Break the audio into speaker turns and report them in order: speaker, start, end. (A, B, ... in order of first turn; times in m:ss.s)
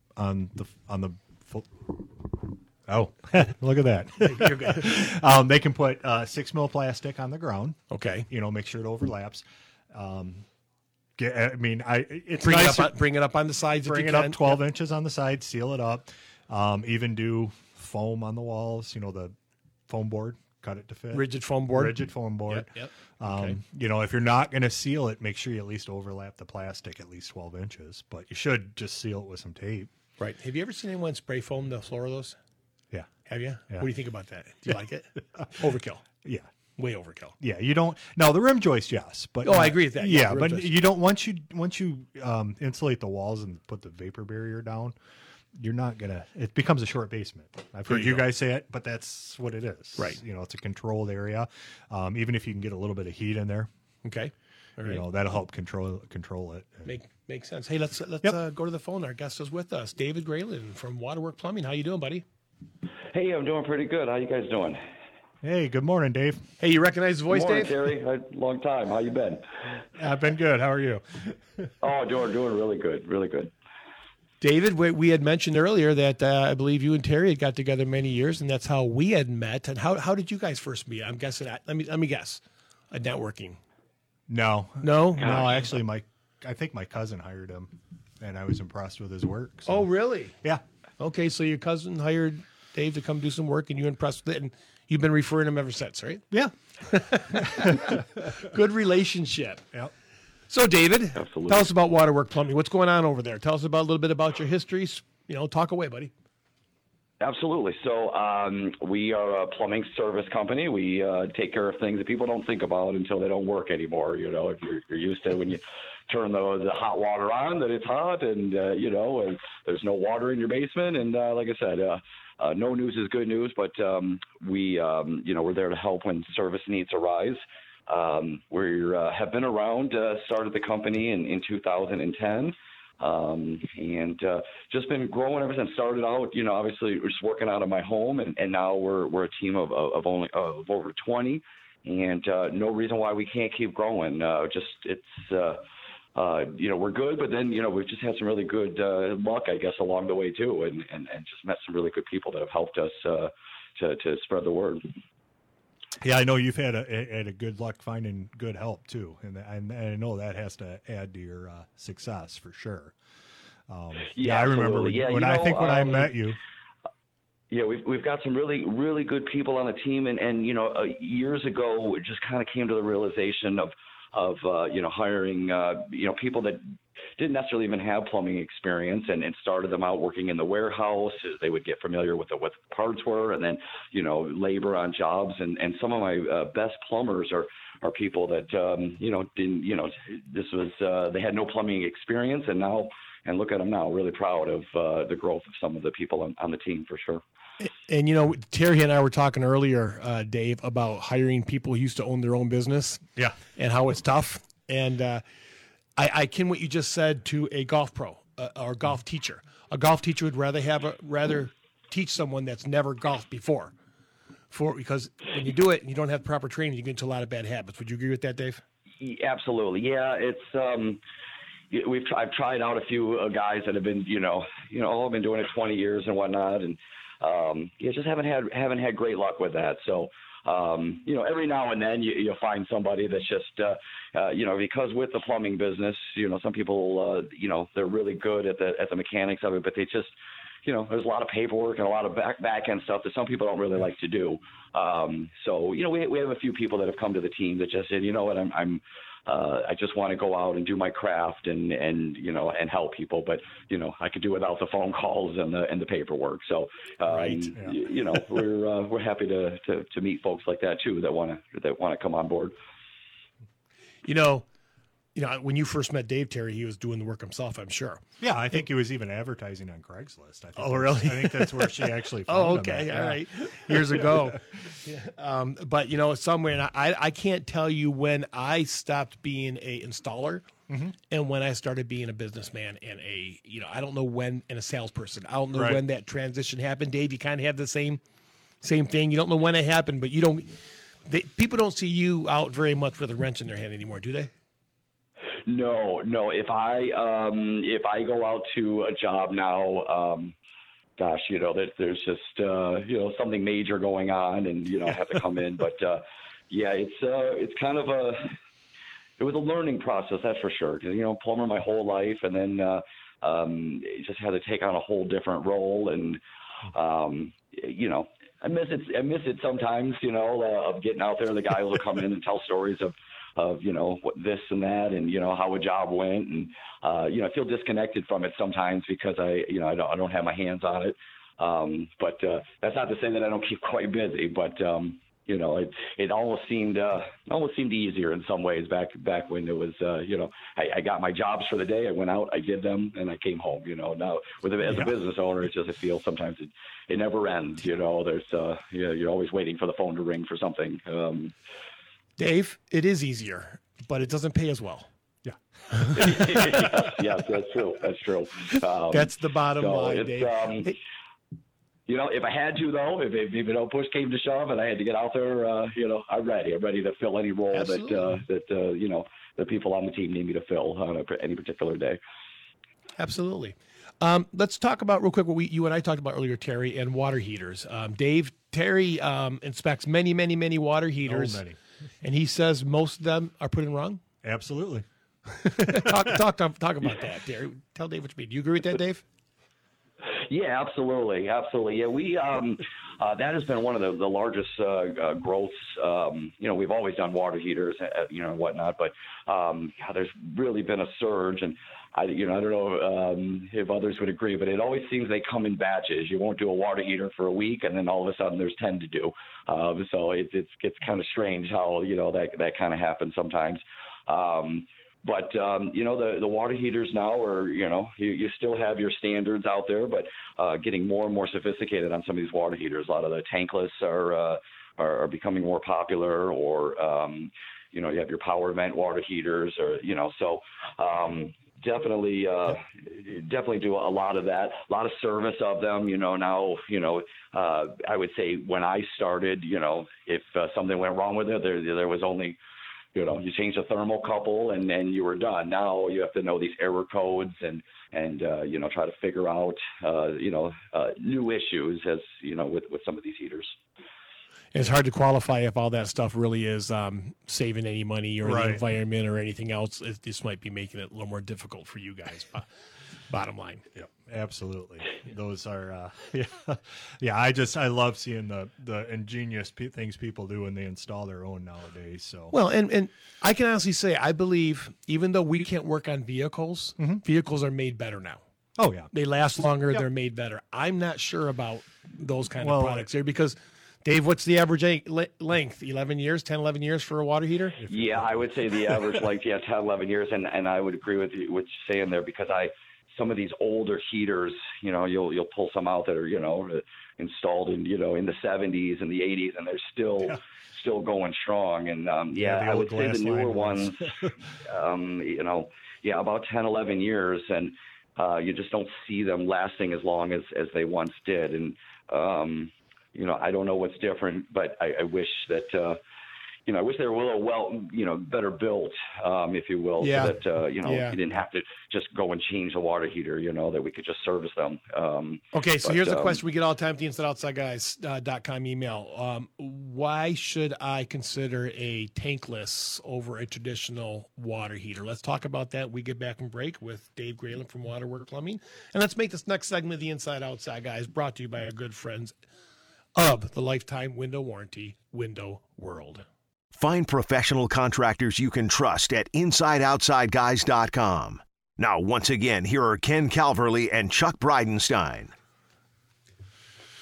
0:00.2-0:10.4 A
0:04.2-0:05.0 B
0:07.9-0:08.3 B
0:11.2-0:13.0 A
0:12.4-0:14.6 B
0:13.8-0:19.3 A
0:19.9-0:29.9 A
0:21.1-0:23.6 B
0:30.2-0:32.4 B
0:33.3-0:36.0 B
0:36.2-0:36.5 A
0:36.8-0:37.4 B
0:37.4-0:45.0 A
0:39.4-0:40.8 B
0:45.6-0:53.7 A
0:47.9-0:48.3 B
0:54.0-0:55.0 B
0:54.8-0:56.9 A
0:56.8-1:02.2 B
1:03.1-1:04.8 C
1:05.4-1:06.4 A
1:06.6-1:07.8 B
1:07.3-1:09.4 C
1:09.9-1:11.7 A
1:11.8-1:13.5 C
1:14.4-1:23.6 B
1:24.3-1:29.9 A
1:24.8-1:25.6 B
1:29.7-1:30.4 B
1:31.0-1:36.2 B
1:36.8-1:39.6 B
1:37.1-1:38.3 A
1:40.5-1:46.1 B
1:41.2-1:41.7 C
1:47.2-2:25.6 C
2:26.1-2:34.8 C
2:36.0-2:42.9 A
2:43.7-2:46.4 A
2:44.1-2:46.1 C
2:47.5-2:56.6 C
2:57.2-3:17.2 C
3:17.6-3:23.0 B
3:23.6-3:25.2 B
3:26.0-3:33.7 B
3:34.5-3:38.6 B
3:39.0-3:41.0 C
3:41.7-4:00.1 C
4:00.6-4:22.5 C
4:17.1-4:17.5 B
4:24.0-4:24.4 B
4:25.1-4:28.0 B
4:28.2-4:34.4 A
4:30.6-4:40.5 B
4:40.7-4:40.9 A
4:41.1-4:48.0 B
4:45.5-4:45.8 A
4:48.6-4:50.5 B
4:51.0-4:54.3 B
4:55.5-5:00.3 C
5:01.0-5:08.3 C
5:09.2-5:51.3 C
5:52.2-5:54.9 B
5:55.9-6:00.7 C
5:58.9-6:00.7 B
6:01.9-6:12.0 C
6:07.5-6:08.2 B
6:13.0-6:21.4 B
6:21.0-6:21.6 A
6:22.0-6:24.0 B
6:24.2-6:24.8 A
6:25.4-6:29.0 B
6:25.6-6:26.1 A
6:30.2-7:22.4 C
7:22.9-7:33.6 C
7:34.5-7:42.5 B
7:38.2-7:38.6 A
7:43.1-7:43.6 B
7:43.7-7:52.3 A
7:52.3-7:58.2 B
7:56.8-7:57.0 A
7:58.6-7:58.9 A
7:58.9-8:07.6 B
8:02.4-8:02.9 A
8:07.6-8:09.0 A
8:07.7-8:23.9 C
8:22.1-8:24.1 A
8:24.4-8:35.8 C
8:36.5-8:46.2 C
8:39.8-8:41.0 B
8:45.3-9:02.1 B
9:03.0-9:06.0 B
9:06.5-9:15.1 D